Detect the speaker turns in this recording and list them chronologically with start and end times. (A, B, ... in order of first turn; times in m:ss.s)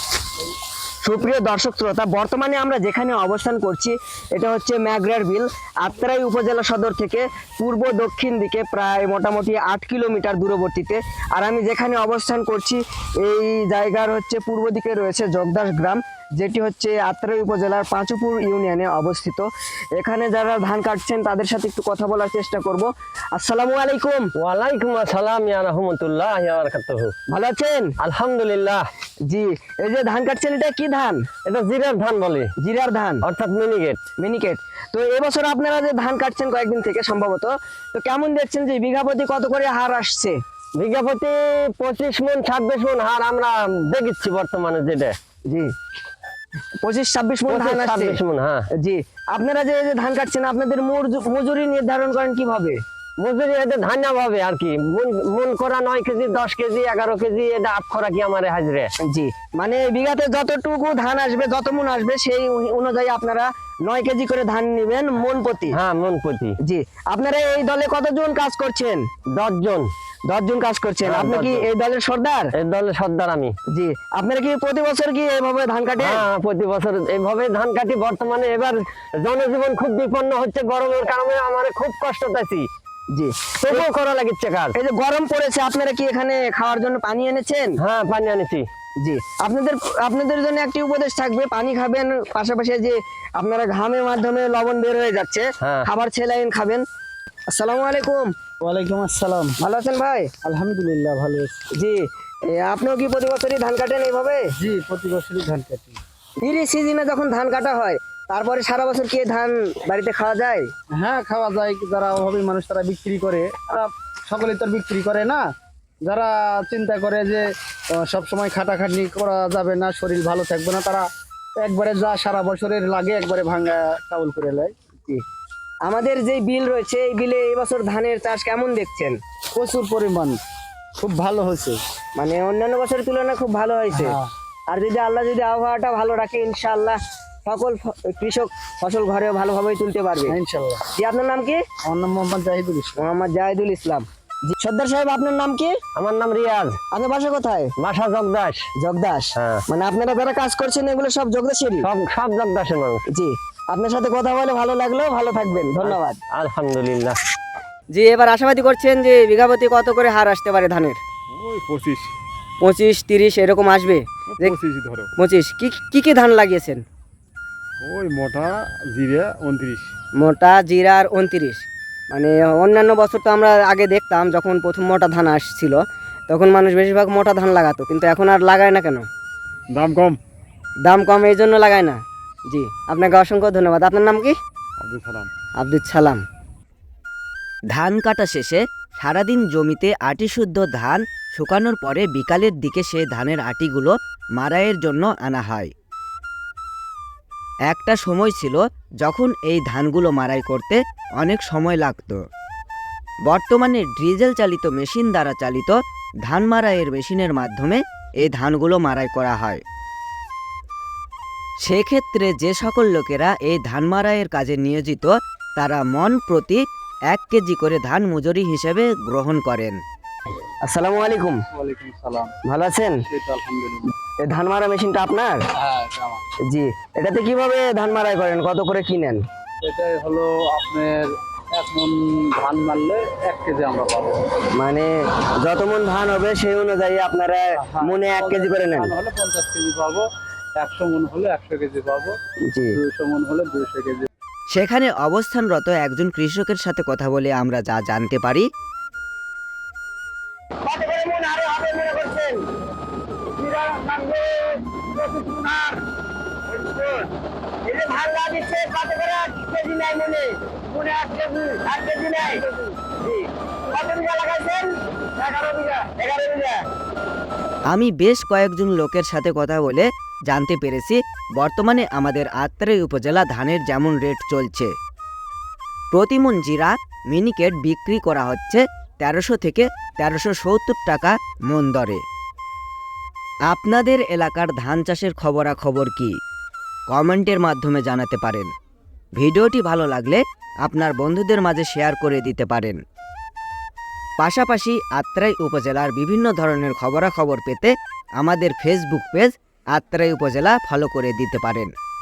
0:01.0-0:24.3 A
0:24.4-0:27.1 B
0:27.3-0:27.9 A
0:28.0-0:28.8 B
0:29.3-0:31.2 A
0:31.4-0:32.5 B
0:32.6-0:33.2 A
0:33.2-0:34.0 B
0:34.2-0:40.4 A
0:40.7-0:45.1 B
0:46.8-0:48.2 A
0:47.5-0:48.6 B
0:48.8-0:52.8 A
0:53.2-0:58.9 B
0:59.0-1:05.8 A
1:05.7-1:06.6 B
1:06.6-1:09.1 A
1:09.3-1:09.9 B
1:10.3-1:12.5 A
1:11.0-1:11.6 B
1:12.6-1:13.5 B
1:13.7-1:16.2 A
1:16.0-1:22.7 B
1:23.1-1:23.9 A
1:23.6-1:24.8 B
1:24.7-1:27.8 A
1:27.8-1:28.6 B
1:29.0-1:36.8 A
1:37.5-1:38.3 A
1:38.6-1:39.6 C
1:39.6-1:40.3 A
1:40.4-1:41.6 C
1:41.8-1:44.4 A
1:44.6-1:46.0 C
1:46.4-1:50.7 A
1:51.0-1:55.4 C
1:56.0-2:04.7 C
2:05.8-2:09.2 A
2:09.5-2:10.4 C
2:11.0-2:11.8 C
2:12.2-2:14.2 A
2:13.9-2:14.3 C
2:14.7-2:20.4 A
2:20.3-2:20.8 C
2:20.9-2:21.6 A
2:21.8-2:22.9 C
2:23.0-2:25.8 A
2:26.0-2:26.8 B
2:26.9-2:27.7 A
2:27.8-2:28.7 B
2:28.8-2:31.9 A
2:29.4-2:29.6 B
2:31.8-2:33.0 B
2:33.1-2:36.2 A
2:35.8-2:37.2 B
2:37.9-2:41.0 A
2:41.3-2:42.1 D
2:42.6-2:44.5 A
2:44.4-2:45.1 D
2:45.2-2:46.8 A
2:47.8-2:49.9 D
2:50.2-2:59.1 A
2:59.7-3:00.2 D
3:00.8-3:04.3 A
3:04.8-3:05.3 D
3:05.6-3:06.2 A
3:07.7-3:15.7 E
3:17.7-3:22.2 E
3:23.3-3:29.6 E
3:31.6-3:39.8 E
3:40.6-3:41.4 A
3:41.6-3:42.3 C
3:42.4-3:43.0 A
3:43.1-3:43.9 C
3:44.2-3:45.4 A
3:45.6-3:46.2 C
3:46.5-3:49.2 A
3:49.6-3:51.0 C
3:51.6-3:54.3 C
3:54.5-3:58.9 A
3:57.6-4:00.0 C
4:00.6-4:02.1 C
4:02.5-4:02.8 A
4:02.7-4:04.1 C
4:04.5-4:08.4 E
4:10.6-4:12.4 A
4:13.4-4:15.8 A
4:16.5-4:17.1 A
4:17.6-4:26.6 A
4:27.7-4:34.7 E
4:35.9-4:42.0 E
4:43.5-4:46.1 E
4:46.9-4:48.4 E
4:49.2-4:52.8 E
4:54.2-5:01.7 E